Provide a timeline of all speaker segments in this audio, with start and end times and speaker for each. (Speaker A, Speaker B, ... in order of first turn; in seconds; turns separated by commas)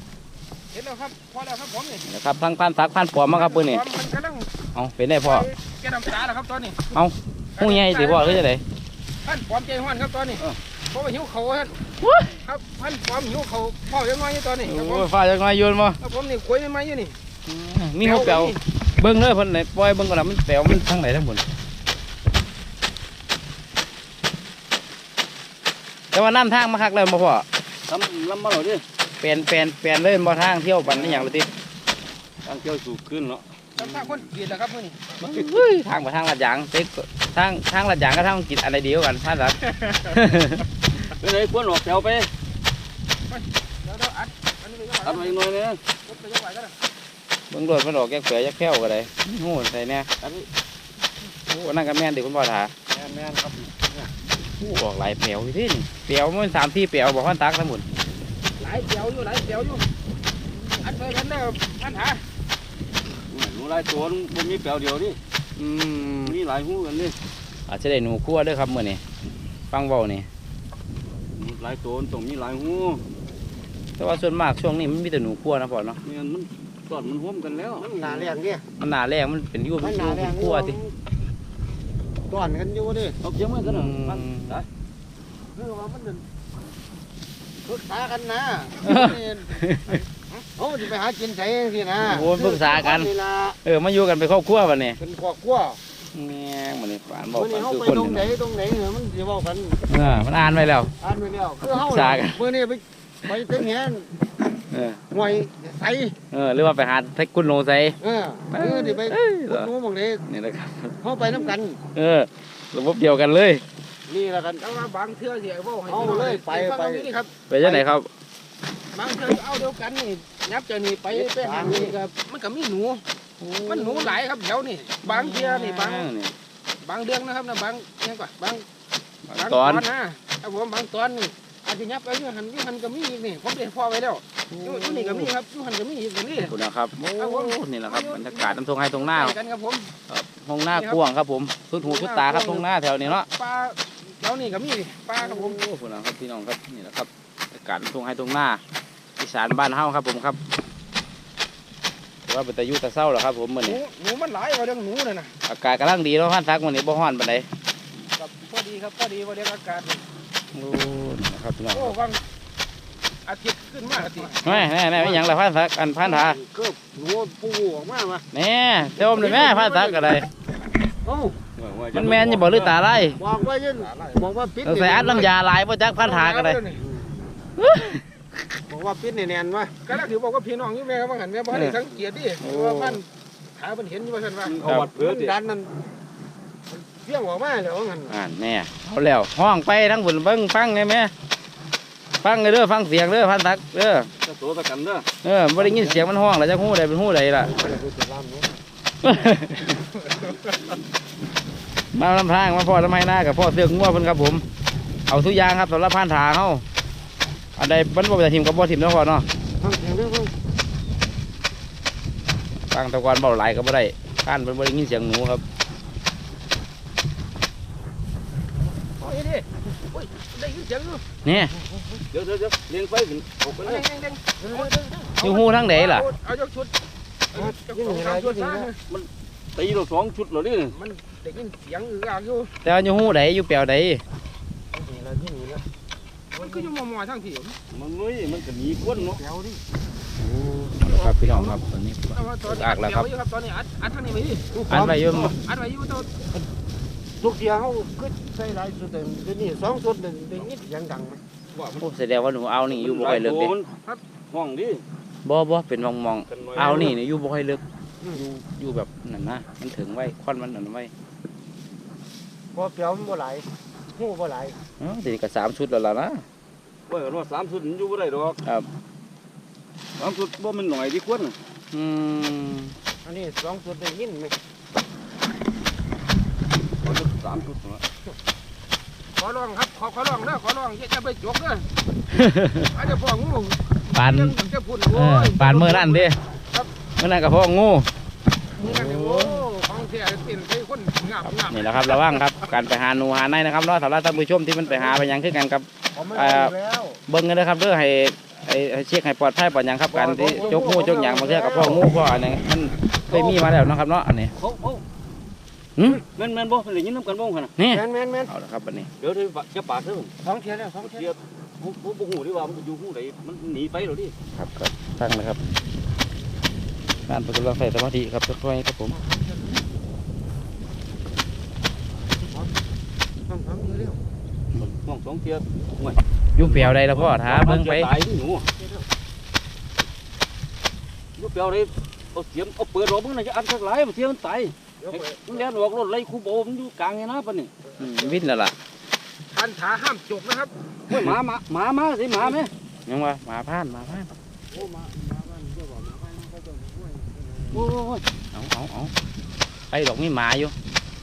Speaker A: 0.7-2.0, Speaker B: 2.0-3.8, Speaker A: 3.3-4.5, Speaker B: 4.7-5.5, Speaker A: 5.2-6.9, Speaker B: 6.9-8.6, Speaker A: 7.6-8.4, Speaker A: 9.2-11.8, Speaker B: 12.0-12.3, Speaker A: 12.4-15.1, Speaker B: 14.7-16.0, Speaker A: 16.0-17.1, Speaker B: 17.5-21.4, Speaker A: 18.0-18.6, Speaker B: 26.1-27.4, Speaker C: 27.9-28.8, Speaker B: 29.2-31.5, Speaker C: 30.9-31.3, Speaker C: 32.4-33.4, Speaker A: 33.8-35.4, Speaker B: 33.8-34.1, Speaker B: 35.2-40.6, Speaker A: 39.8-40.1, Speaker C: 41.2-42.3, Speaker A: 43.3-45.4, Speaker C: 45.0-45.8, Speaker A: 46.1-46.7, Speaker B: 47.5-50.1, Speaker B: 51.5-52.7, Speaker D: 52.9-54.1, Speaker B: 54.6-57.8, Speaker A: 58.6-59.8, Speaker A: 60.8-62.2, Speaker C: 63.3-65.2, Speaker B: 65.6-66.3, Speaker C: 66.2-67.1, Speaker B: 67.7-69.0, Speaker B: 69.7-70.3, Speaker C: 71.3-73.0, Speaker B: 74.0-76.0, Speaker C: 76.0-77.9, Speaker D: 77.8-78.6, Speaker B: 78.0-80.8, Speaker D: 79.8-80.9, Speaker D: 82.3-83.2, Speaker C: 83.2-84.7, Speaker B: 83.6-84.6, Speaker D: 85.5-86.2, Speaker D: 87.7-89.6, Speaker B: 88.8-90.0, Speaker D: 90.6-93.6, Speaker B: 92.0-93.1, Speaker B: 93.6-95.0, Speaker D: 95.0-95.8, Speaker B: 96.1-98.3, Speaker D: 97.3-99.8, Speaker B: 99.9-100.9, Speaker D: 101.0-104.1, Speaker B: 101.7-102.4, Speaker B: 104.7-105.0, Speaker D: 105.1-106.1, Speaker B: 106.3-108.0, Speaker D: 108.0-110.2, Speaker B: 108.5-109.7, Speaker B: 110.3-111.0, Speaker D: 111.0-111.8, Speaker B: 111.9-113.6, Speaker D: 114.1-114.6, Speaker A: 114.6-117.3, Speaker D: 115.8-117.1, Speaker B: 117.5-118.1, Speaker A: 118.9-123.0, Speaker D: 121.1-122.0, Speaker B: 123.4-124.2, Speaker A: 123.6-126.1, Speaker B: 125.0-126.3, Speaker A: 126.8-128.6, Speaker B: 129.3-129.8, Speaker A: 129.4-139.9, Speaker B: 134.5-135.3, Speaker B: 136.5-139.3, Speaker B: 140.1-143.3, Speaker A: 140.7-141.0, Speaker A: 141.8-145.6, Speaker B: 145.2-148.6, Speaker B: 149.2-150.4, Speaker B: 152.2-153.8, Speaker A: 153.6-155.3, Speaker B: 155.5-157.4, Speaker A: 158.2-160.0, Speaker B: 160.5-161.9, Speaker A: 161.7-162.2, Speaker A: 163.2-164.4, Speaker D: 163.9-165.3, Speaker B: 164.4-166.4, Speaker D: 166.0-168.2, Speaker B: 168.3-170.2, Speaker D: 169.0-170.2, Speaker D: 171.0-171.4, Speaker C: 171.6-172.8, Speaker B: 171.9-173.2, Speaker D: 173.2-175.3, Speaker B: 174.6-176.6, Speaker A: 176.0-176.8, Speaker D: 176.8-177.2, Speaker B: 177.6-178.0, Speaker D: 178.7-179.7, Speaker A: 179.8-183.1, Speaker B: 181.5-181.8, Speaker B: 182.4-183.0, Speaker A: 183.6-184.6, Speaker C: 184.4-185.3, Speaker D: 184.9-185.7, Speaker D: 186.7-188.1, Speaker B: 188.1-191.1, Speaker B: 192.2-194.1, Speaker C: 194.2-195.1, Speaker B: 195.2-197.5, Speaker D: 195.6-196.0, Speaker D: 197.4-198.5, Speaker B: 199.0-199.8, Speaker A: 200.0-200.5, Speaker B: 201.9-204.4, Speaker B: 205.1-206.6, Speaker B: 207.6-209.2, Speaker D: 209.6-210.3, Speaker B: 212.7-215.4, Speaker A: 219.0-221.0, Speaker B: 221.2-221.5, Speaker D: 221.3-222.0, Speaker C: 222.1-223.8, Speaker A: 223.6-226.7, Speaker D: 224.4-225.1, Speaker B: 225.2-226.1, Speaker A: 227.3-228.8, Speaker D: 227.3-228.7, Speaker C: 228.9-230.7, Speaker A: 230.7-232.5, Speaker B: 232.6-234.0, Speaker D: 234.7-235.6, Speaker A: 236.3-237.6, Speaker D: 236.4-236.7, Speaker C: 237.7-239.2, Speaker D: 238.8-239.6, Speaker B: 240.3-243.1, Speaker A: 240.8-241.6, Speaker A: 242.1-244.5, Speaker D: 244.5-245.3, Speaker B: 244.7-245.3, Speaker A: 245.2-246.2, Speaker D: 247.2-251.2, Speaker C: 251.5-251.9, Speaker B: 251.8-253.5, Speaker C: 252.7-253.7, Speaker C: 254.3-254.8, Speaker B: 255.2-257.6, Speaker C: 256.3-256.9, Speaker D: 256.6-256.9, Speaker B: 258.1-260.9, Speaker D: 262.5-264.6, Speaker B: 264.8-266.2, Speaker C: 266.9-268.4, Speaker C: 270.0-271.3, Speaker B: 271.7-272.7, Speaker D: 273.0-274.3, Speaker C: 276.8-277.8, Speaker A: 279.2-281.6, Speaker B: 282.1-282.7, Speaker A: 282.7-286.7, Speaker B: 283.9-284.4, Speaker B: 284.9-286.2, Speaker B: 287.0-287.9, Speaker A: 288.6-292.2, Speaker D: 288.6-289.4, Speaker B: 291.2-296.5, Speaker D: 295.9-297.0, Speaker B: 297.1-304.3, Speaker D: 299.9-301.9, Speaker A: 300.3-300.8, Speaker C: 303.1-303.4, Speaker C: 304.4-304.8, Speaker C: 306.0-307.5, Speaker B: 307.6-308.9, Speaker D: 307.7-308.3, Speaker C: 309.0-310.1, Speaker D: 310.2-311.1, Speaker C: 310.8-314.1, Speaker B: 314.4-315.4, Speaker B: 317.1-319.0, Speaker D: 318.9-319.6, Speaker D: 322.2-322.6, Speaker D: 323.2-324.0, Speaker C: 324.6-328.4, Speaker B: 326.4-327.9, Speaker D: 328.5-328.9, Speaker C: 331.2-337.5, Speaker D: 334.8-335.4, Speaker D: 337.6-338.2, Speaker B: 337.8-338.5, Speaker A: 339.3-340.5, Speaker C: 340.9-342.5, Speaker B: 340.9-341.2, Speaker B: 342.9-344.1, Speaker D: 344.5-347.7, Speaker C: 347.5-348.0, Speaker B: 348.3-348.9, Speaker B: 349.7-350.5